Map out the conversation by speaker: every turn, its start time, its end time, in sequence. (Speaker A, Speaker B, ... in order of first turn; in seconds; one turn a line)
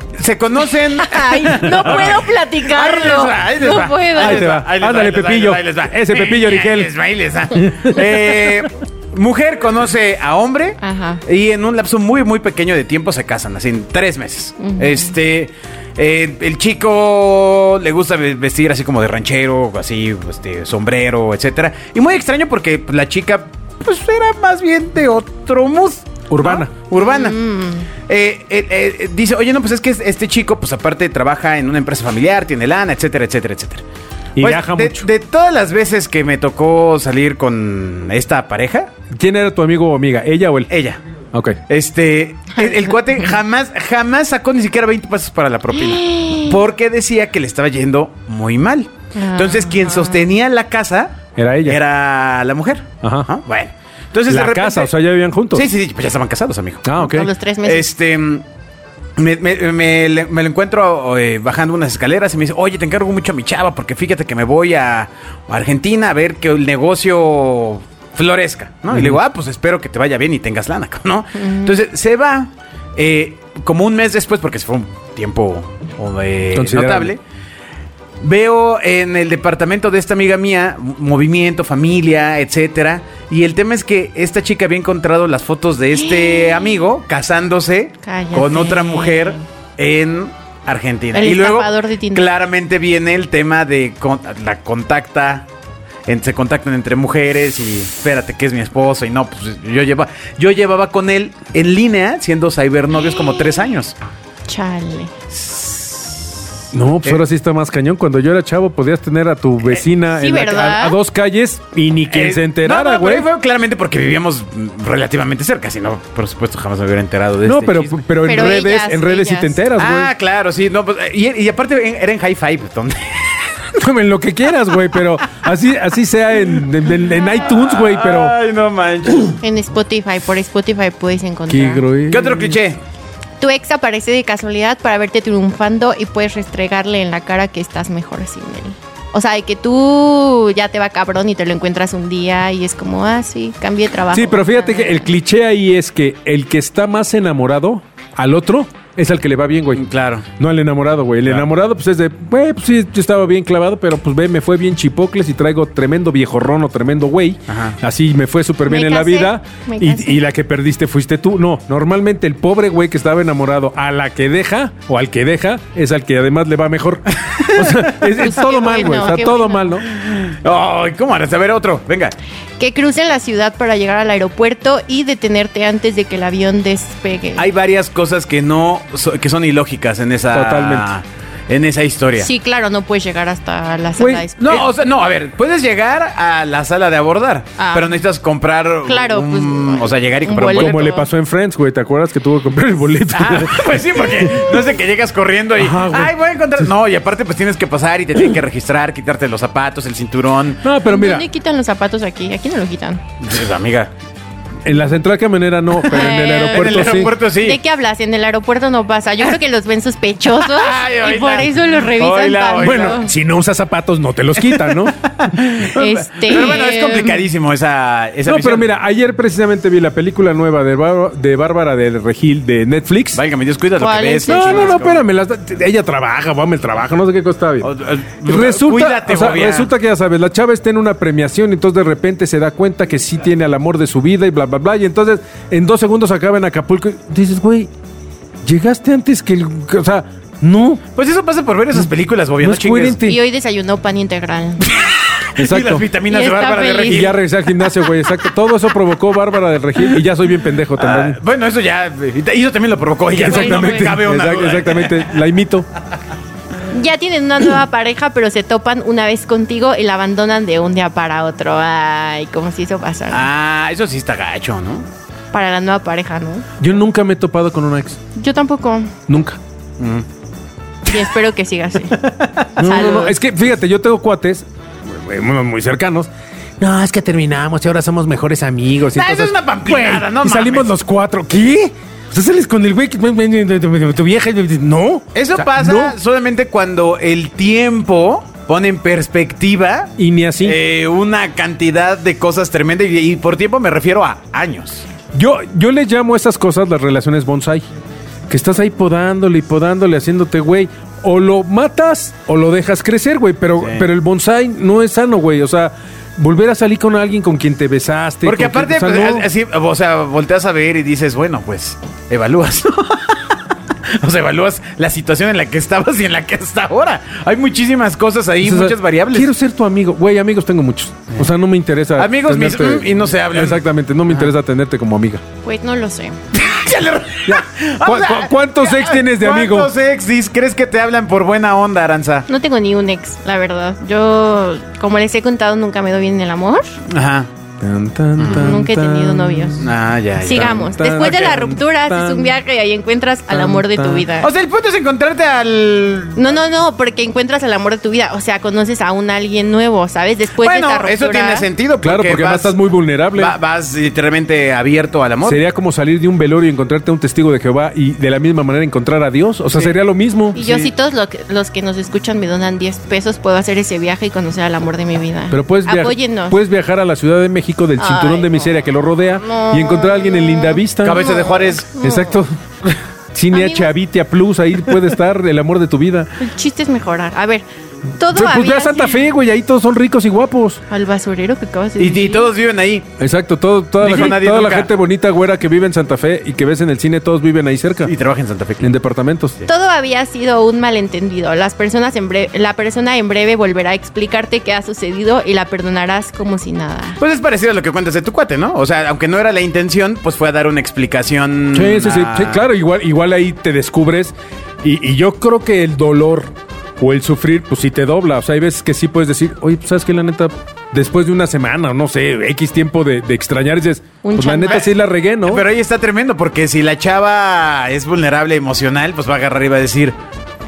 Speaker A: 0.2-27.5
Speaker B: 0.9-4.5
Speaker C: 1.8-2.1
Speaker C: 4.2-6.9
Speaker C: 7.5-8.0
Speaker B: 10.8-11.2
Speaker B: 14.6-15.1
Speaker C: 26.3-26.7
Speaker B: 26.9-27.9
Speaker A: 28.1-33.8
Speaker C: 34.4-35.0
Speaker A: 34.4-38.9
Speaker C: 39.1-40.7
Speaker A: 40.7-41.0
Speaker C: 41.3-41.6
Speaker A: 41.7-54.9
Speaker B: 42.6-42.9
Speaker B: 45.7-46.6
Speaker B: 49.1-50.2
Speaker C: 51.4-51.8
Speaker C: 53.0-53.3
Speaker C: 54.3-55.6
Speaker A: 55.5-57.0
Speaker C: 56.8-57.3
Speaker B: 57.0-57.9
Speaker A: 57.6-58.4
Speaker A: 59.2-77.2
Speaker C: 68.9-69.2
Speaker B: 71.3-71.7
Speaker C: 76.5-77.1
Speaker A: 78.2-95.5
Speaker B: 85.9-86.8
Speaker B: 88.0-89.4
Speaker B: 91.1-92.3
Speaker A: 96.1-103.9
Speaker B: 104.5-105.1
Speaker A: 105.4-106.2
Speaker C: 106.7-113.3
Speaker B: 110.0-111.0
Speaker A: 112.1-118.0
Speaker C: 117.4-120.1
Speaker B: 118.2-119.6
Speaker A: 119.7-123.5
Speaker C: 123.7-128.3
Speaker A: 127.2-129.4
Speaker B: 129.4-131.8
Speaker C: 131.5-132.6
Speaker A: 132.1-132.8
Speaker B: 133.4-145.1
Speaker C: 144.1-149.8
Speaker A: 149.7-150.2
Speaker C: 150.4-169.8
Speaker A: 157.5-157.8
Speaker B: 158.6-160.2
Speaker A: 167.2-168.0
Speaker B: 168.1-169.8
Speaker A: 168.8-169.1
Speaker A: 169.9-172.1
Speaker B: 172.6-177.4
Speaker A: 177.4-182.3
Speaker C: 180.3-180.9
Speaker B: 182.2-184.7
Speaker C: 184.0-184.3
Speaker A: 184.4-190.9
Speaker B: 187.6-187.9
Speaker B: 188.8-191.1
Speaker C: 190.3-194.6
Speaker A: 193.1-200.6
Speaker C: 195.6-196.6
Speaker C: 200.6-201.3
Speaker B: 200.8-203.0
Speaker A: 203.2-203.9
Speaker C: 204.6-207.1
Speaker B: 205.8-213.1
Speaker A: 206.0-207.6
Speaker A: 210.4-213.0
Speaker C: 212.6-214.9
Speaker A: 214.4-218.7
Speaker B: 215.7-217.2
Speaker C: 218.2-223.2
Speaker A: 223.1-225.0
Speaker B: 223.8-224.8
Speaker C: 224.2-227.7
Speaker A: 227.6-229.7
Speaker C: 228.2-237.7
Speaker C: 238.4-240.8
Speaker A: 240.9-243.0
Speaker C: 242.4-243.2
Speaker B: 243.0-244.6
Speaker A: 244.7-247.2
Speaker C: 245.4-245.9
Speaker B: 246.1-247.1
Speaker C: 246.8-251.2
Speaker A: 250.8-255.0
Speaker C: 253.1-255.7
Speaker B: 253.3-253.8
Speaker B: 256.7-263.3
Speaker A: 263.1-264.9
Speaker B: 265.3-266.4
Speaker C: 266.6-268.0
Speaker B: 268.1-268.9
Speaker C: 269.1-269.4
Speaker A: 269.8-270.1
Speaker B: 270.9-272.0
Speaker C: 272.6-285.9
Speaker B: 272.6-273.1
Speaker A: 278.9-280.7
Speaker A: 285.1-294.8
Speaker C: 290.0-290.6
Speaker C: 295.1-297.6
Speaker C: 298.3-309.3
Speaker A: 303.6-303.9
Speaker A: 308.2-313.4
Speaker A: 313.9-319.3
Speaker C: 318.4-325.2
Speaker A: 322.0-324.3
Speaker B: 325.4-326.2
Speaker A: 326.3-332.3
Speaker C: 327.2-329.7
Speaker B: 332.3-336.7
Speaker A: 336.9-337.3
Speaker C: 337.6-339.7
Speaker A: 338.2-338.5
Speaker B: 338.3-344.3
Speaker A: 339.6-341.4
Speaker C: 340.3-342.4
Speaker C: 343.3-344.1
Speaker A: 344.2-346.3
Speaker B: 346.1-351.5
Speaker A: 350.4-352.6
Speaker C: 351.8-353.3
Speaker A: 353.1-355.4
Speaker C: 355.2-360.4
Speaker A: 360.3-360.7
Speaker B: 360.3-366.4
Speaker C: 365.3-371.1
Speaker B: 367.8-368.7
Speaker B: 369.2-372.2
Speaker A: 370.8-371.7
Speaker C: 371.8-376.1
Speaker B: 373.3-373.7
Speaker B: 376.2-377.4
Speaker B: 378.0-379.1
Speaker C: 378.1-380.6
Speaker B: 380.7-382.3
Speaker A: 381.8-382.9
Speaker C: 383.0-387.9
Speaker A: 383.8-384.7
Speaker A: 387.8-388.7
Speaker C: 388.6-389.4
Speaker B: 389.4-397.0
Speaker A: 397.0-402.5
Speaker C: 401.5-415.4
Speaker B: 414.0-414.7
Speaker A: 415.2-420.0